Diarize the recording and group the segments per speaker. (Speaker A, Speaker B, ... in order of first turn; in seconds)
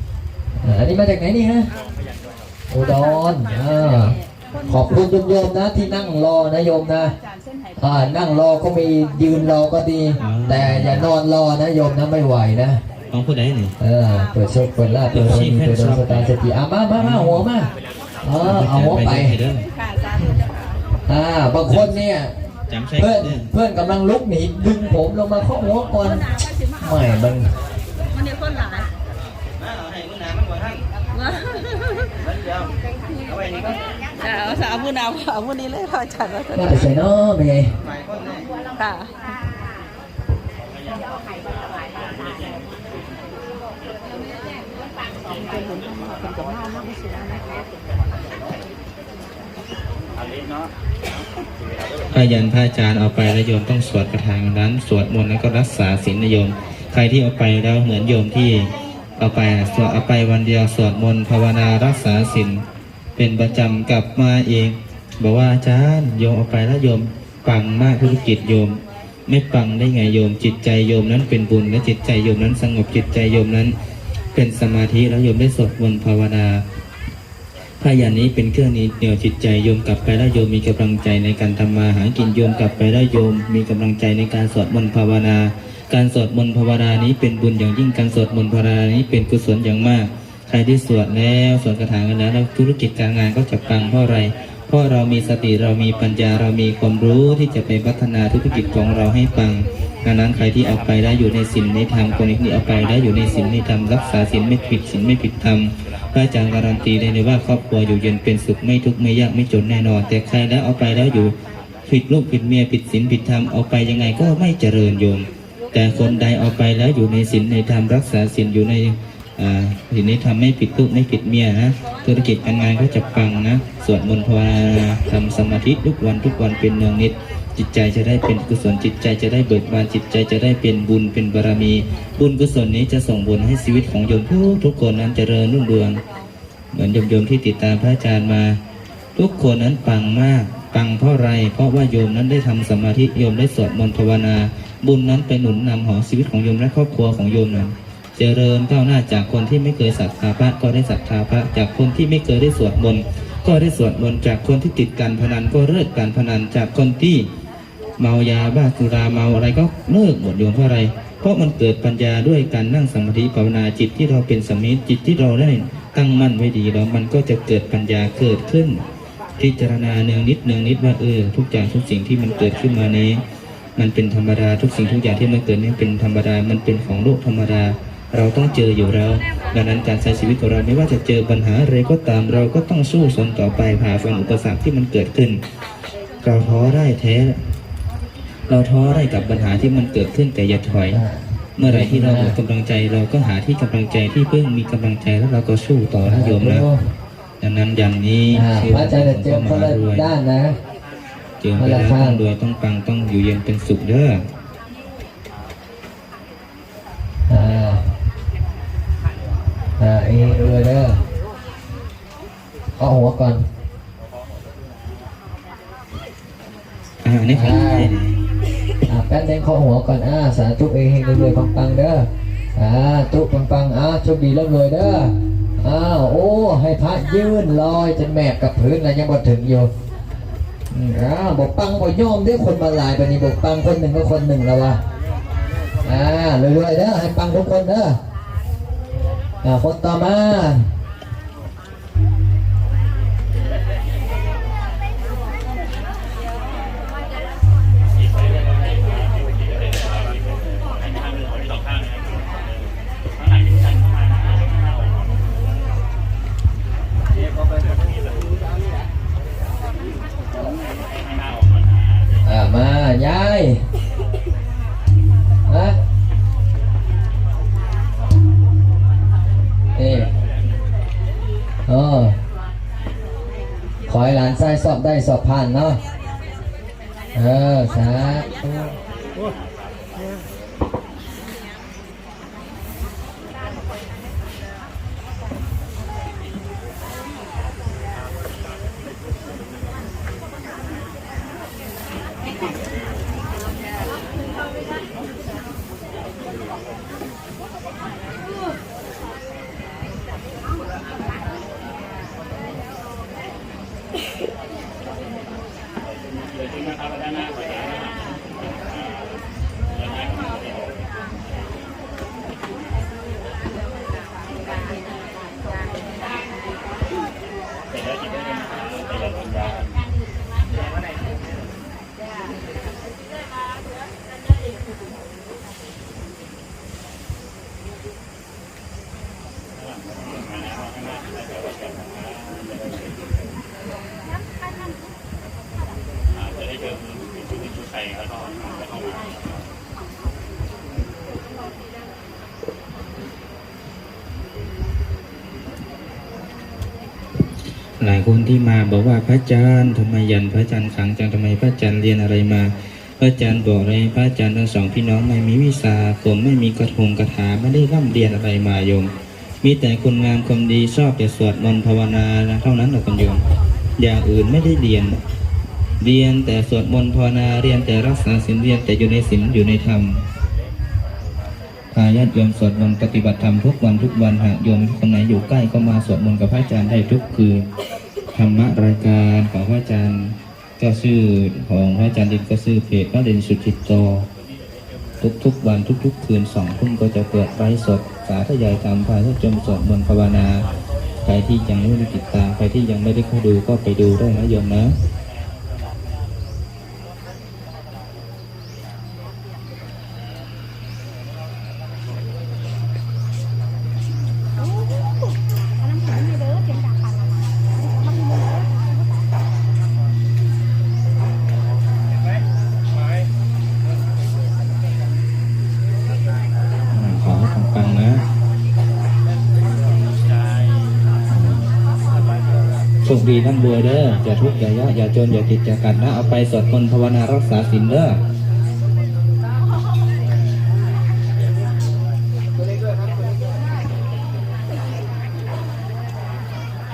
Speaker A: 0.6-1.7, 2.7-4.2, 4.7-7.1, 7.8-12.8, 13.8-17.7, 18.2-19.4, 21.1-22.3, 23.0-26.3, 26.8-27.5, 36.5-37.8, 190.9-192.4, 196.1-196.8, 198.3-200.6, 201.6-202.2, 207.3-207.8, 209.8-211.0, 212.8-213.4, 217.3-217.9, 218.9-229.7, 230.7-234.8, 235.8-238.0, 239.4-240.7, 262.2-263.6, 265.5-265.8, 269.8-270.1, 271.7-272.2, 273.9-275.8, 277.1-278.6
Speaker B: 10.2-11.1, 13.1-13.8, 15.1-16.3, 16.9-17.5, 18.4-19.7, 21.7-22.0, 22.7-23.5, 52.1-62.6, 63.2-73.8, 74.3-76.6, 77.8-111.3, 111.9-136.0, 136.7-138.6, 139.2-157.3, 158.0-168.8, 169.4-173.2, 173.8-185.4, 186.2-187.4, 188.5-191.0, 191.6-196.7, 197.4-200.1, 201.4-204.2, 217.0-218.2, 347.8-363.2, 363.8-365.0, 365.8-370.1, 371.7-377.5, 378.1-384.1, 385.0-390.5, 391.0-394.7, 416.7-418.0, 421.1-421.5, 422.8-428.0
Speaker C: 28.1-28.9, 31.1-32.2, 34.1-36.9, 38.7-39.1, 45.2-47.6